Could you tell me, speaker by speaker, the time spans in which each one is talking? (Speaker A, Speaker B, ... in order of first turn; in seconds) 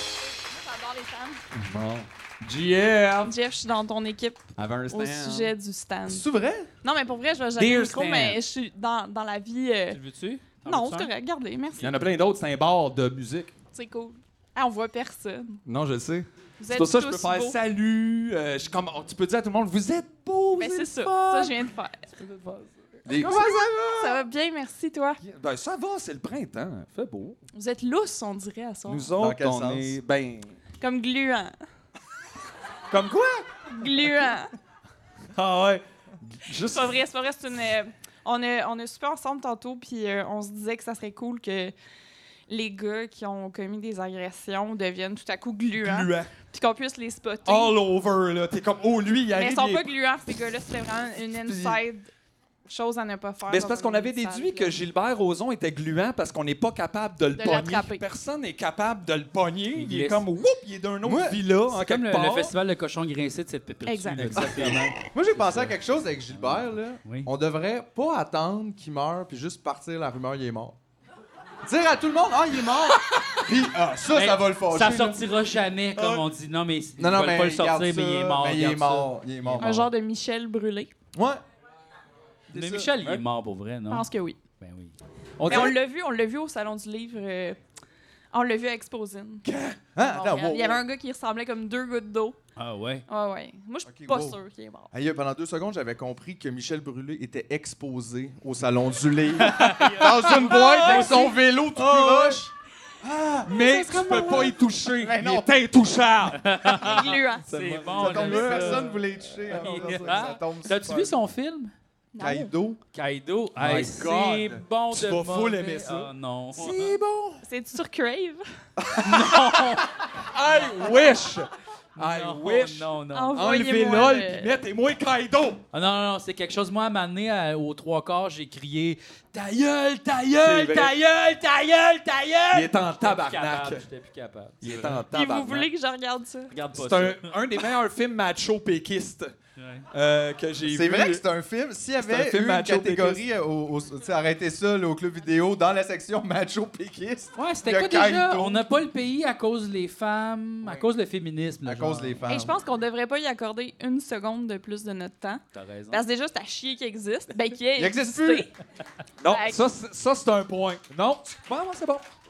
Speaker A: 0.4-1.4, 3.2-6.2, 6.8-10.0, 10.6-11.9, 13.7-15.6, 16.6-17.6, 20.6-22.0, 24.0-25.2, 27.5-29.1, 30.8-31.6, 33.7-34.5, 36.7-41.7, 42.5-47.8, 49.3-52.1, 52.6-54.7, 57.3-58.0, 63.9-64.3, 79.6-80.9, 83.9-84.4, 85.5-87.6, 88.3-89.4, 90.0-92.4, 93.1-94.9, 100.5-101.3, 103.5-104.5, 106.8-107.5, 112.1-112.5, 117.4-118.4, 123.1-124.6, 135.1-136.5, 152.3-158.5, 159.3-159.7
Speaker B: 1.5-3.3, 4.5-5.5, 7.6-8.4, 11.8-13.5, 15.7-23.6, 25.2-27.4, 28.9-30.6, 32.9-33.6, 35.3-37.0, 45.8-46.3, 47.5-49.9, 51.5-51.8, 53.5-62.5, 64.2-64.9, 82.5-83.2, 85.4-85.7, 89.4-89.8, 100.2-102.5, 103.4-108.9, 109.6-110.3, 113.6-117.4, 120.1-125.6, 130.1-131.0, 132.5-133.8, 134.6-135.7, 136.7-139.3, 139.9-141.2, 142.0-143.2, 159.2-162.1
Speaker C: 6.1-6.7, 23.1-24.2, 29.1-30.0, 61.0-61.4, 64.4-70.8, 71.6-75.2, 77.0-79.9, 81.1-81.4, 85.5-85.7, 89.9-90.8, 93.8-94.4, 94.9-102.5, 103.0-103.5, 105.0-105.5, 107.9-111.1, 112.2-112.8, 118.8-119.5, 134.7-135.0, 140.6-148.6, 151.6-152.6, 157.8-158.5
Speaker D: 9.9-11.1, 59.8-60.2, 61.7-65.7, 66.3-67.3, 74.1-79.7, 82.5-84.1, 84.6-84.9, 92.6-93.0, 99.4-101.1, 106.4-111.7, 112.9-117.0, 119.0-119.9, 122.0-123.4, 125.7-134.8, 136.5-137.3, 139.6-139.9, 147.3-152.2, 155.5-156.0